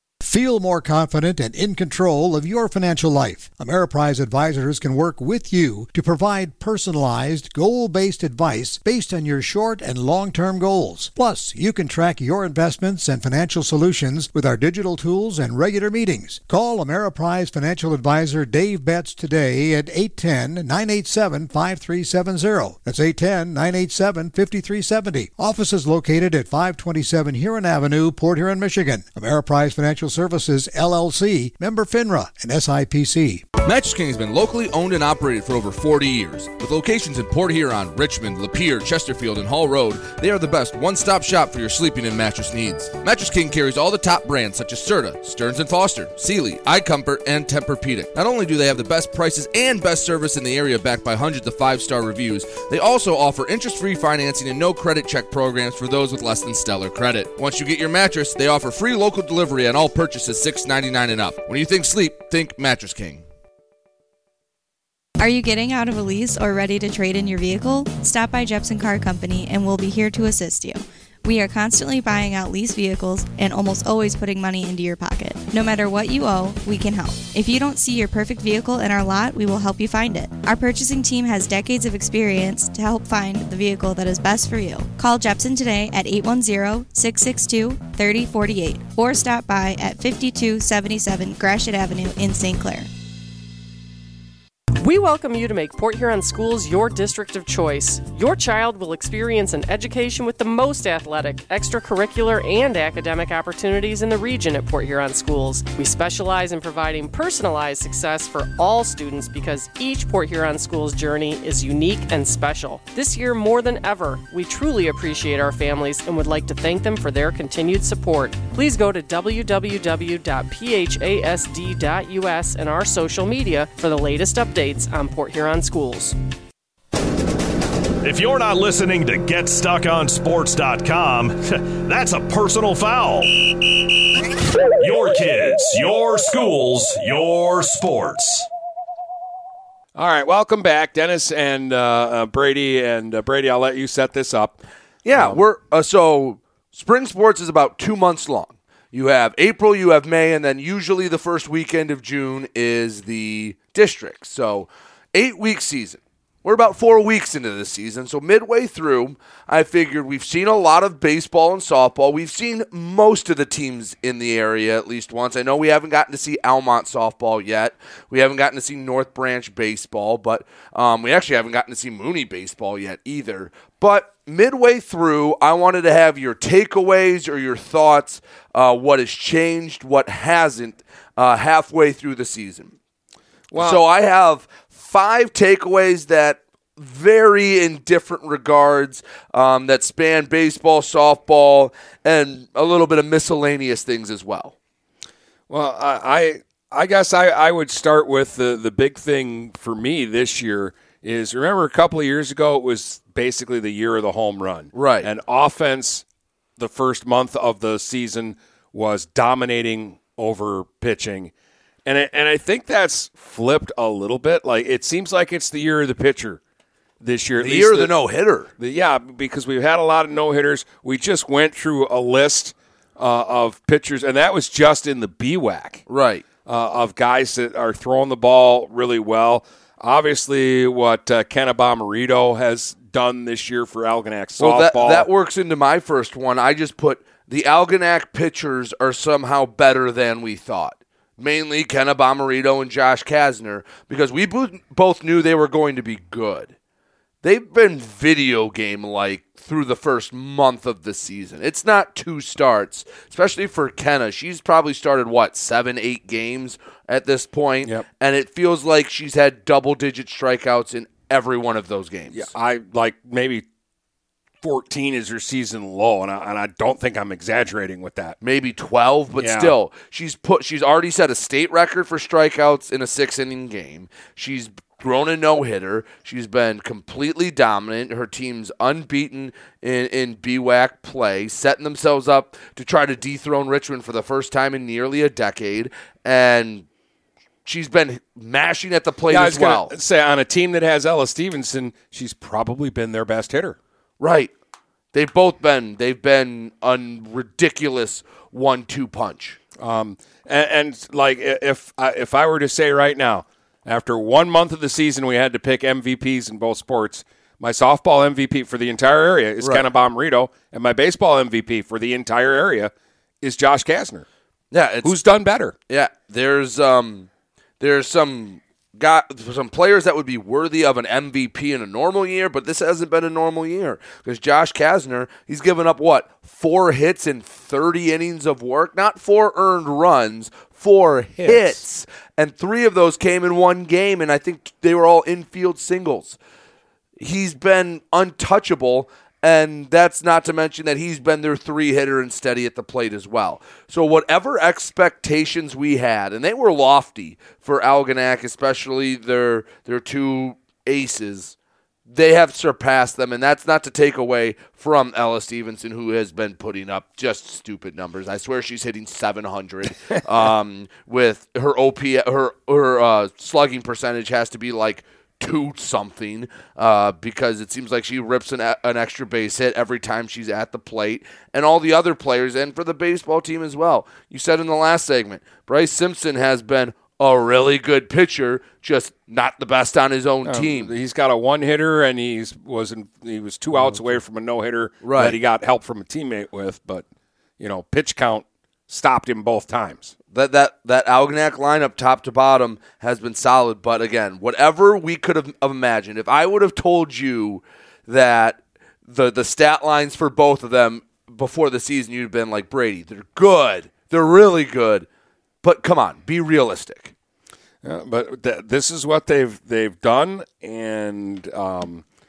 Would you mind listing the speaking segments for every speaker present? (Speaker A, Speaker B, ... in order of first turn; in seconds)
Speaker A: 0.2-33.4
Speaker B: 33.6-63.2, 145.0-182.7, 183.5-194.5, 204.7-205.1, 217.4-218.5, 225.9-226.2, 234.4-246.5, 247.2-262.3, 268.2-286.6, 287.4-289.7, 294.0-294.3, 294.9-299.4, 314.5-314.9, 315.7-317.1, 317.6-336.2, 337.0-351.3, 351.9-380.7, 384.8-385.2, 390.1-404.9, 405.4-406.9
Speaker C: 65.2-92.9
Speaker D: 94.8-126.2
Speaker E: 128.0-133.3, 134.8-138.5
Speaker F: 139.9-144.6, 145.1-145.4, 183.5-183.8, 195.5-206.0, 206.6-211.3, 211.8-216.4, 217.0-217.9, 218.6-225.8, 226.4-235.1, 262.1-263.4, 264.4-268.2, 269.2-269.5, 289.1-293.6, 299.6-314.1, 314.8-315.5, 331.2-331.6, 380.2-386.8, 387.4-389.9, 407.6-411.8